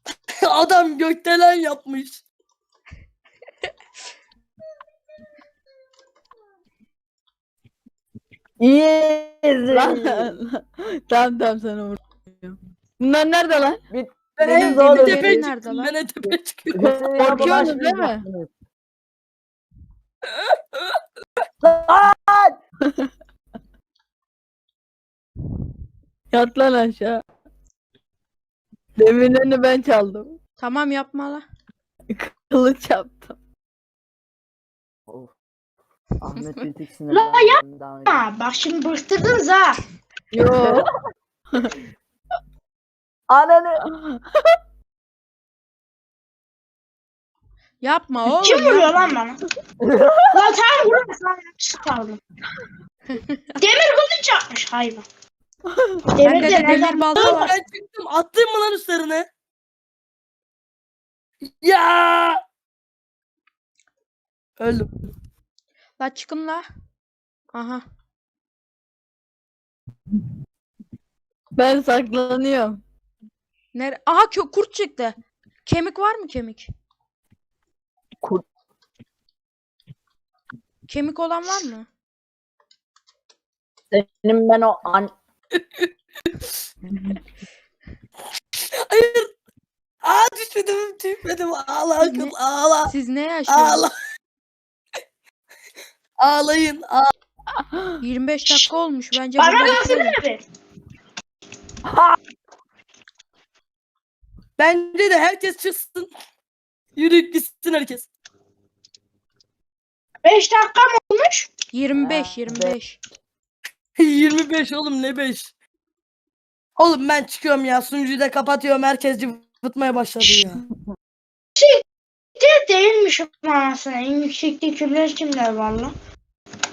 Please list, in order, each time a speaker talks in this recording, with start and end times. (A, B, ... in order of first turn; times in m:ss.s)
0:00.4-0:02.2 A
0:08.6-0:10.3 B
0:09.7-0:13.8 C
0:13.9-0:15.5 B
0:14.4-0:17.1 A
0:14.6-0:15.9 D
0:16.7-0:18.5 B
0:17.2-0:18.2 C
0:20.4-0:20.8 A
0:21.6-0:22.6 B
0:26.3-0:27.2 C
0:29.0-0:30.4 C
0:30.6-0:31.4 D
0:32.1-0:33.4 C
0:35.1-0:35.3 B
0:36.2-0:38.2 B
0:37.1-0:39.8 E
0:40.3-0:40.9 C
0:40.4-0:40.9 B
0:43.3-0:43.8 B
0:43.9-0:44.6 C
0:47.8-0:48.9 D
0:48.4-0:49.4 E
0:49.8-0:50.5 B
0:50.3-0:52.2 E
0:53.1-0:53.6 D
0:53.6-0:55.0 E
0:55.7-0:56.1 C
0:56.1-0:57.5 E
0:56.2-0:57.5 D
0:56.6-0:59.3 A
1:01.6-1:02.4 A
1:04.6-1:04.9 A
1:06.0-1:06.6 D
1:07.5-1:07.8 D
1:11.5-1:12.8 C
1:13.7-1:16.7 D
1:20.9-1:21.8 D
1:23.9-1:25.1 B
1:25.6-1:25.9 A
1:28.7-1:29.3 A
1:30.0-1:32.9 A
1:32.0-1:32.3 D
1:32.9-1:33.9 D
1:33.5-1:33.9 A
1:36.2-1:37.1 A
1:38.0-1:40.2 D
1:39.4-1:40.4 E
1:41.8-1:42.2 B
1:44.6-1:46.1 A
1:47.0-1:48.1 A
1:50.2-1:51.5 E
1:51.7-1:53.0 D
1:51.9-1:52.8 B
1:54.0-1:55.5 A
1:56.8-2:00.6 A
2:01.6-2:01.8 E
2:02.4-2:05.9 E